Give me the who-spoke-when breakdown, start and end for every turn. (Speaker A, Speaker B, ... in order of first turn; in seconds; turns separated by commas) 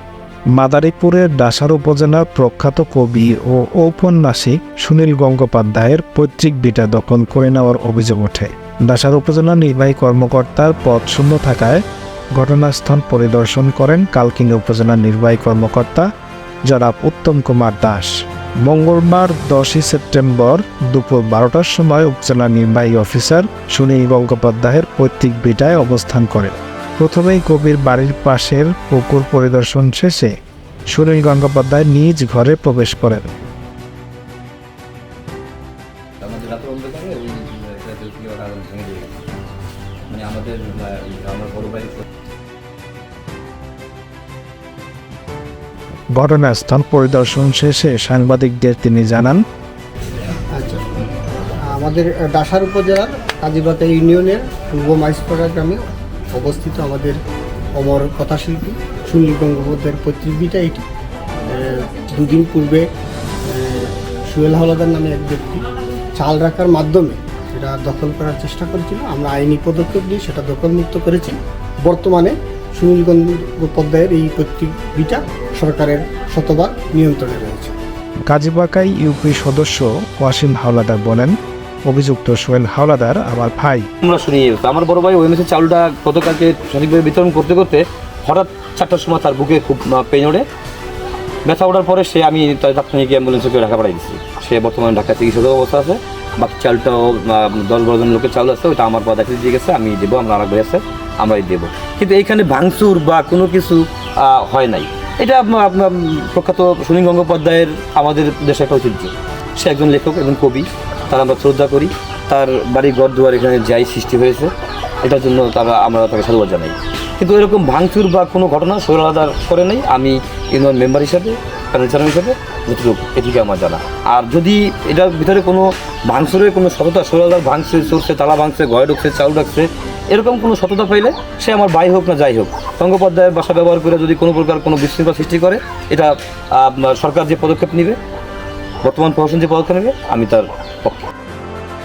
Speaker A: 0.5-11.8, Speaker A: 12.3-16.1, Speaker A: 16.7-30.3, Speaker A: 30.9-33.3, Speaker B: 36.2-39.2, Speaker B: 40.1-42.0, Speaker A: 46.2-49.4, Speaker C: 50.6-50.8, Speaker C: 51.7-57.2, Speaker C: 57.8-60.8, Speaker C: 61.5-62.9, Speaker C: 63.5-65.6, Speaker C: 66.2-77.7, Speaker A: 78.3-83.9, Speaker B: 84.0-90.5, Speaker B: 91.5-138.0, Speaker B: 138.8-141.1